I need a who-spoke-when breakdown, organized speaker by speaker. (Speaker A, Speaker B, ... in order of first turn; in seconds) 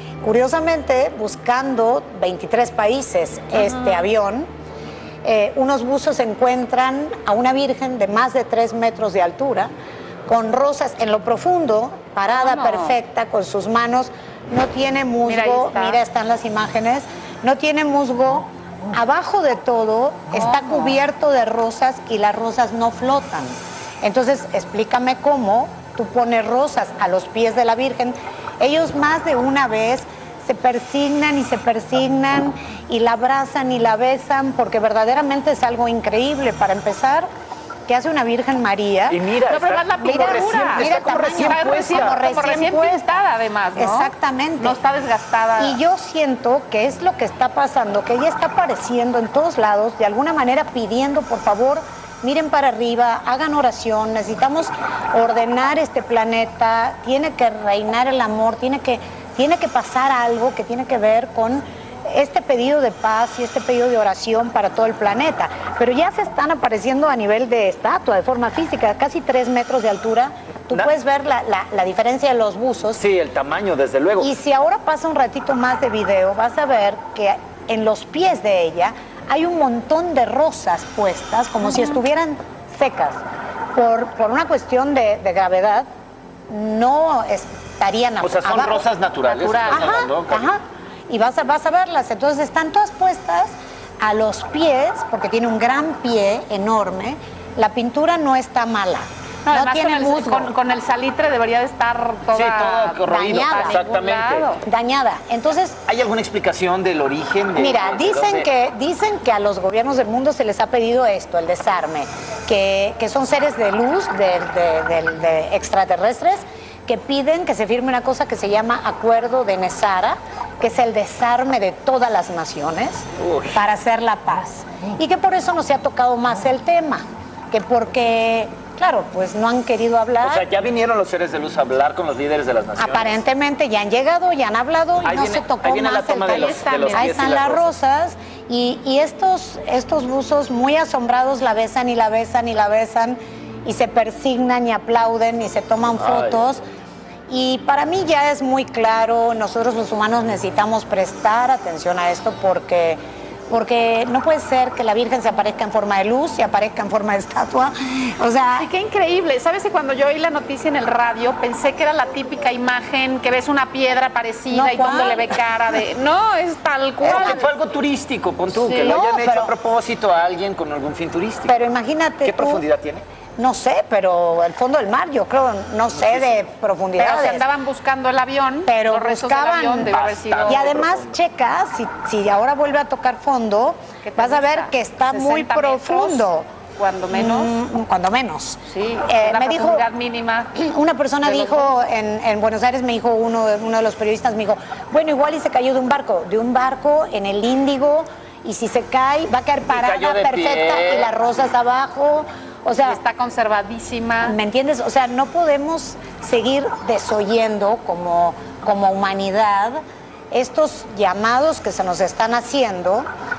Speaker A: 0.2-4.5, 5.2-9.7, 10.3-37.3, 37.9-39.2, 40.0-43.2, 43.8-44.8, 45.6-73.0, 74.2-83.2, 83.7-85.9, 86.5-88.8, 89.7-100.5, 103.1-103.8, 104.6-105.8, 107.5-130.4, 132.8-146.6, 147.3-158.7, 164.5-165.3, 167.0-167.4, 168.8-169.5, 171.4-172.6, 173.4-177.5, 178.7-179.9, 180.4-186.5, 187.1-189.8, 190.5-203.0, 204.2-209.8, 210.3-213.1
Speaker B: 3.5-4.0, 12.3-13.0, 15.2-16.0, 20.3-21.0, 39.5-45.8, 81.6-82.0, 89.2-89.9, 99.4-104.6, 136.2-137.3, 158.5-167.4, 168.5-169.0, 177.0-180.7, 184.0-187.5, 188.7-190.6, 191.2-191.8, 202.8-204.4
Speaker C: 39.1-42.2, 73.0-74.3, 88.2-90.5, 102.3-104.6, 105.8-108.5, 123.2-123.6, 130.2-133.2, 135.0-137.7, 146.0-146.4, 167.0-171.6, 172.2-173.0, 176.0-176.4, 179.9-181.2, 199.7-201.1